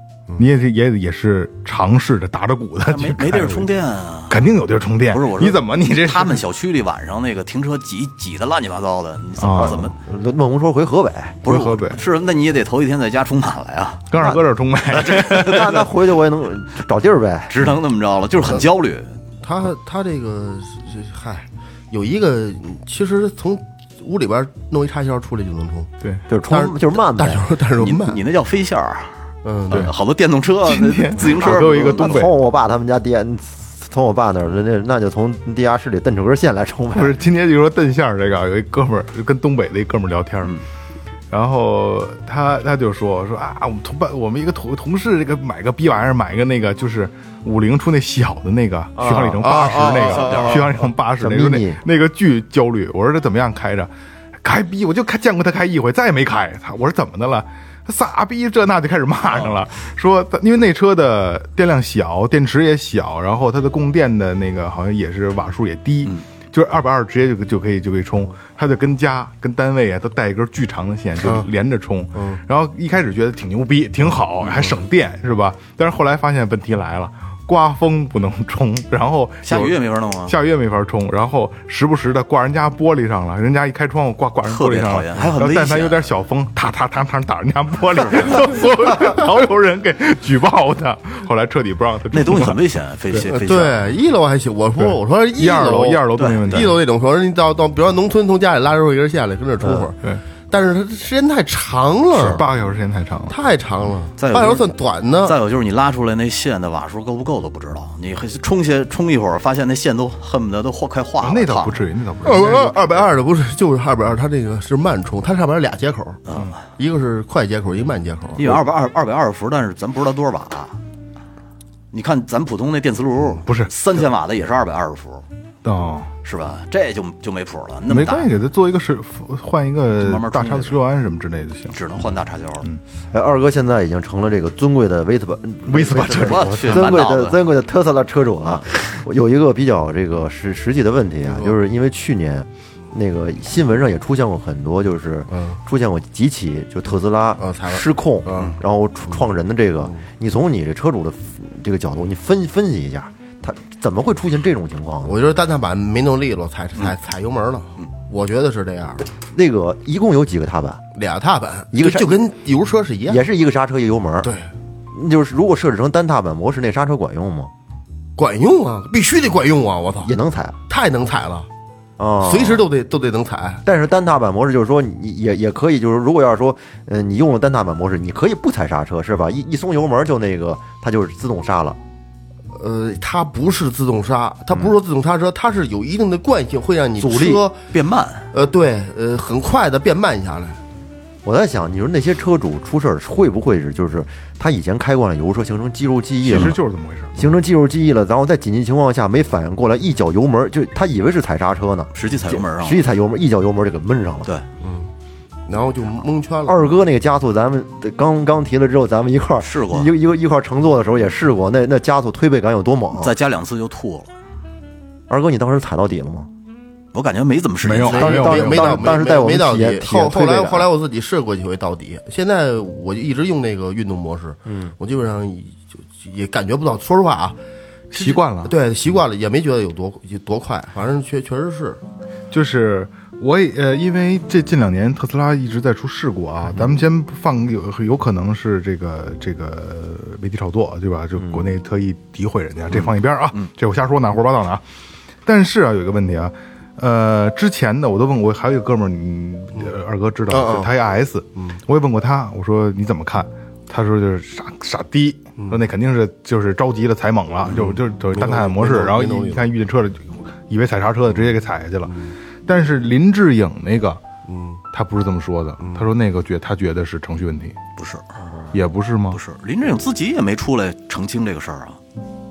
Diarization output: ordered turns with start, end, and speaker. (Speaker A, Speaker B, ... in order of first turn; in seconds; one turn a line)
Speaker A: 0.4-3.7
Speaker B: 2.8-4.4
Speaker A: 4.3-6.4
Speaker B: 5.1-9.9
Speaker A: 9.4-9.8
Speaker C: 9.4-11.4
Speaker B: 11.4-14.3
Speaker A: 11.4-12.0
Speaker A: 14.1-15.7
Speaker C: 14.2-14.4
Speaker B: 14.9-15.9
Speaker C: 15.3-17.5
Speaker B: 17.5-19.1
Speaker D: 19.4-25.9
Speaker C: 26.3-27.5
Speaker D: 26.5-28.2
Speaker B: 27.8-29.1
Speaker D: 29.4-29.9
Speaker B: 29.7-32.3
Speaker A: 30.6-32.3
Speaker C: 31.3-37.2
Speaker A: 36.9-40.5
Speaker A: 41.3-53.9
Speaker C: 49.0-49.4
Speaker D: 49.1-50.7
Speaker B: 50.1-50.6
Speaker C: 51.2-51.8
Speaker A: 54.4-92.6
Speaker D: 71.2-71.5
Speaker D: 72.1-72.4
Speaker D: 74.4-74.8
Speaker B: 79.4-80.3
Speaker B: 84.5-86.1
Speaker B: 88.0-88.3
Speaker B: 92.1-93.8
Speaker D: 93.3-102.5
Speaker A: 94.8-96.8
Speaker B: 96.1-96.8
Speaker C: 99.6-99.9
Speaker A: 102.1-103.3
Speaker D: 103.3-105.4
Speaker B: 104.2-104.6
Speaker B: 105.2-111.8
Speaker A: 111.2-113.0
Speaker D: 112.2-116.2
Speaker B: 116.3-116.6
Speaker D: 116.8-118.5
Speaker B: 118.4-120.8
Speaker B: 121.9-125.2
Speaker A: 123.4-123.7
Speaker A: 125.6-126.1
Speaker B: 126.2-128.3
Speaker A: 127.9-131.8
Speaker B: 130.0-130.8
Speaker B: 131.7-132.7
Speaker C: 133.1-155.2
Speaker A: 135.7-136.9
Speaker B: 136.1-137.4
Speaker D: 141.3-141.6
Speaker D: 145.3-145.6
Speaker D: 147.4-148.6
Speaker D: 155.0-159.0
Speaker C: 159.3-160.8
Speaker D: 160.9-163.2
Speaker C: 161.7-162.2
Speaker C: 163.1-164.3
Speaker D: 164.2-164.5
Speaker C: 164.9-167.5
Speaker D: 168.2-170.1
Speaker C: 170.0-170.6
Speaker D: 170.7-171.5
Speaker C: 172.0-172.7
Speaker D: 172.2-173.6
Speaker C: 173.6-181.8
Speaker D: 182.5-187.6
Speaker C: 187.0-187.4
Speaker B: 187.7-188.2
Speaker D: 188.3-190.6
Speaker C: 191.2-196.6
Speaker A: 196.2-197.2
Speaker C: 197.1-204.3
Speaker B: 201.9-202.9
Speaker D: 204.6-204.9
Speaker D: 205.5-206.6
Speaker C: 206.4-213.1
Speaker B: 209.4-209.9
Speaker B: 212.9-214.1
Speaker C: 215.1-216.3
Speaker B: 216.9-218.1
Speaker A: 217.6-218.9
Speaker D: 217.8-227.4
Speaker C: 218.0-220.7
Speaker C: 224.4-224.7
Speaker D: 227.9-231.8
Speaker A: 227.9-228.5
Speaker A: 232.3-244.6
Speaker C: 241.2-241.6
Speaker A: 245.2-264.0
Speaker D: 250.3-250.7
Speaker D: 257.4-259.5
Speaker D: 261.9-262.1
Speaker D: 264.3-264.6
Speaker A: 264.7-267.6
Speaker D: 265.6-265.9
Speaker B: 267.8-268.0
Speaker A: 268.5-269.2
Speaker B: 269.1-271.8